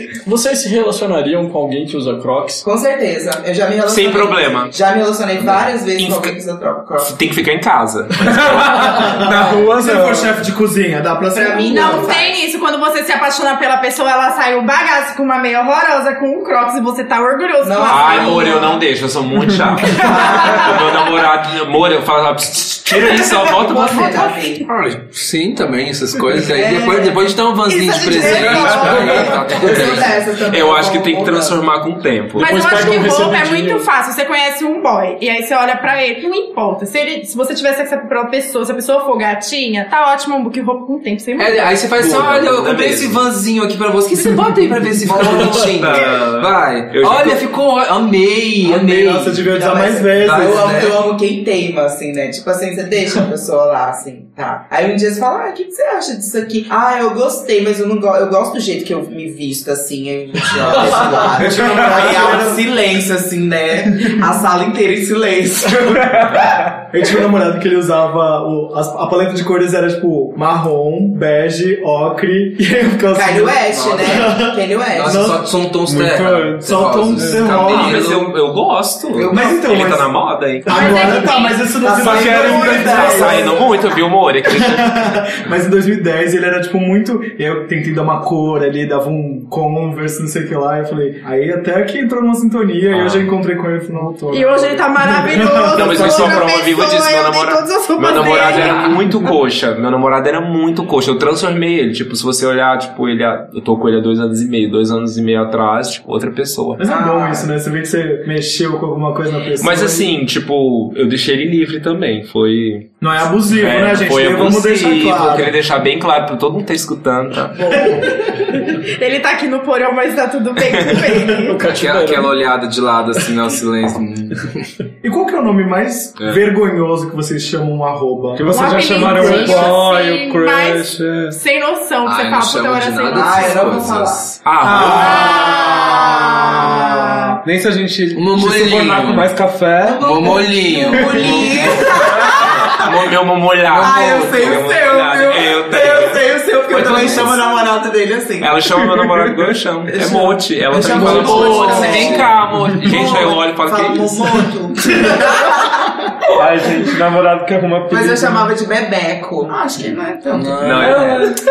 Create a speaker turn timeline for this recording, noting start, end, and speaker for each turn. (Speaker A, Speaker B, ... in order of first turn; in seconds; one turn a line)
Speaker A: 0.2-2.6
Speaker B: 2.6-7.1
Speaker C: 3.9-4.7
Speaker C: 6.0-6.4
Speaker C: 7.0-9.2
Speaker D: 8.2-10.3
Speaker E: 9.2-12.1
Speaker B: 11.3-12.3
Speaker F: 11.7-18.7
Speaker B: 17.6-18.8
Speaker C: 17.9-25.0
Speaker B: 19.8-21.1
Speaker B: 22.9-24.7
Speaker G: 25.0-30.2
Speaker B: 26.4-31.6
Speaker F: 27.7-28.9
Speaker C: 28.6-29.0
Speaker C: 29.8-32.7
Speaker F: 32.4-41.8
Speaker A: 32.4-33.9
Speaker G: 41.4-49.4
Speaker C: 42.0-43.2
Speaker B: 45.1-45.4
Speaker C: 45.1-47.4
Speaker E: 48.6-50.9
Speaker B: 48.9-66.7
Speaker G: 50.2-51.0
Speaker E: 60.7-62.6
Speaker E: 66.9-78.2
Speaker B: 73.1-75.4
Speaker G: 73.7-74.2
Speaker G: 74.9-78.3
Speaker D: 75.9-77.6
Speaker C: 77.3-81.0
Speaker B: 79.1-79.6
Speaker E: 79.3-83.7
Speaker F: 80.7-81.7
Speaker B: 81.8-84.0
Speaker D: 82.0-83.2
Speaker C: 82.8-85.3
Speaker E: 84.5-96.4
Speaker C: 92.9-93.3
Speaker F: 94.3-99.0
Speaker C: 95.7-106.8
Speaker E: 106.8-110.1
Speaker B: 106.8-107.5
Speaker C: 109.6-113.0
Speaker E: 113.0-115.5
Speaker C: 113.5-117.8
Speaker F: 117.6-121.6
Speaker E: 117.8-118.1
Speaker C: 120.6-121.0
Speaker A: 121.3-122.3
Speaker G: 121.7-124.7
Speaker E: 125.0-129.7
Speaker D: 128.4-131.4
Speaker F: 128.5-133.8
Speaker G: 132.0-134.5
Speaker B: 133.1-137.1
Speaker C: 134.4-135.5
Speaker F: 134.8-137.4
Speaker D: 137.4-140.1
Speaker G: 138.1-139.3
Speaker B: 139.8-143.1
Speaker G: 140.0-142.0
Speaker D: 140.9-141.8
Speaker C: 142.6-147.4
Speaker G: 143.7-144.6
Speaker B: 143.7-148.6
Speaker G: 146.9-147.4
Speaker C: 148.4-154.5
Speaker D: 149.0-149.3
Speaker B: 149.9-156.5
Speaker G: 150.8-152.5
Speaker D: 156.3-158.5
Speaker B: 157.9-161.2
Speaker G: 160.3-161.2
Speaker C: 160.6-161.3
Speaker A: 160.7-161.3